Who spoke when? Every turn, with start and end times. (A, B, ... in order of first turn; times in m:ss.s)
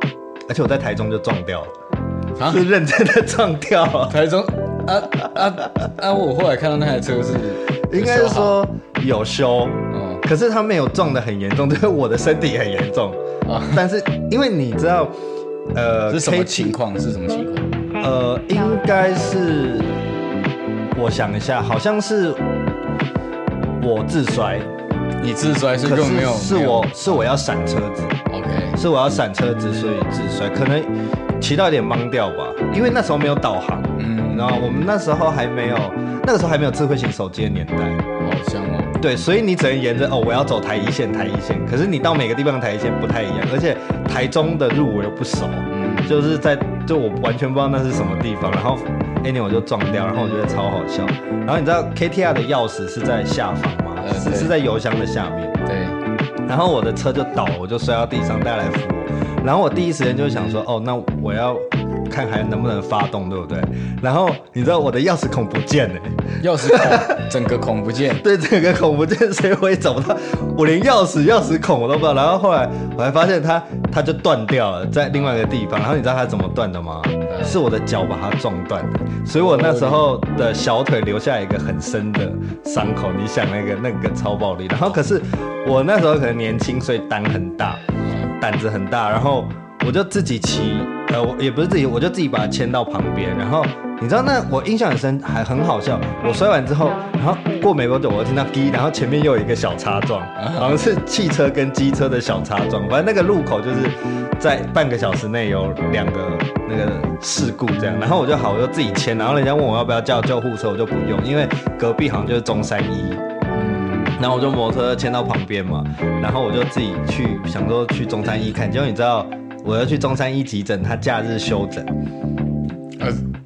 0:00.5-0:01.7 A
0:02.4-0:02.7 B
0:02.4-0:04.2 A
0:04.1-0:08.6 B
0:07.9-0:15.2 A
0:09.9-0:10.2 B
0:13.4-0:13.9 B
0:15.7-0:16.8 A
0:16.1-0:17.7 B
0:18.0-0:20.0 A
0:21.0-0:22.4 A
0:23.8-0:24.7 A
0:25.2-0:26.9 B
0:25.8-0:28.2 A
0:28.3-0:28.8 B
0:28.8-0:38.0 A
0:34.0-0:34.9 B
0:38.2-0:39.0 B
0:39.0-0:55.6 A
0:45.7-0:46.3 B
0:54.0-0:54.5 B
0:55.7-0:56.0 B
0:56.5-1:07.2 A
1:06.4-1:08.2 B
1:08.2-1:27.8 A
1:17.3-1:17.6 B
1:19.4-1:20.1 B
1:28.0-1:28.3 B
1:28.3-1:53.2 A
1:40.4-1:40.8 B
1:53.5-1:54.2 B
1:54.2-2:01.9 A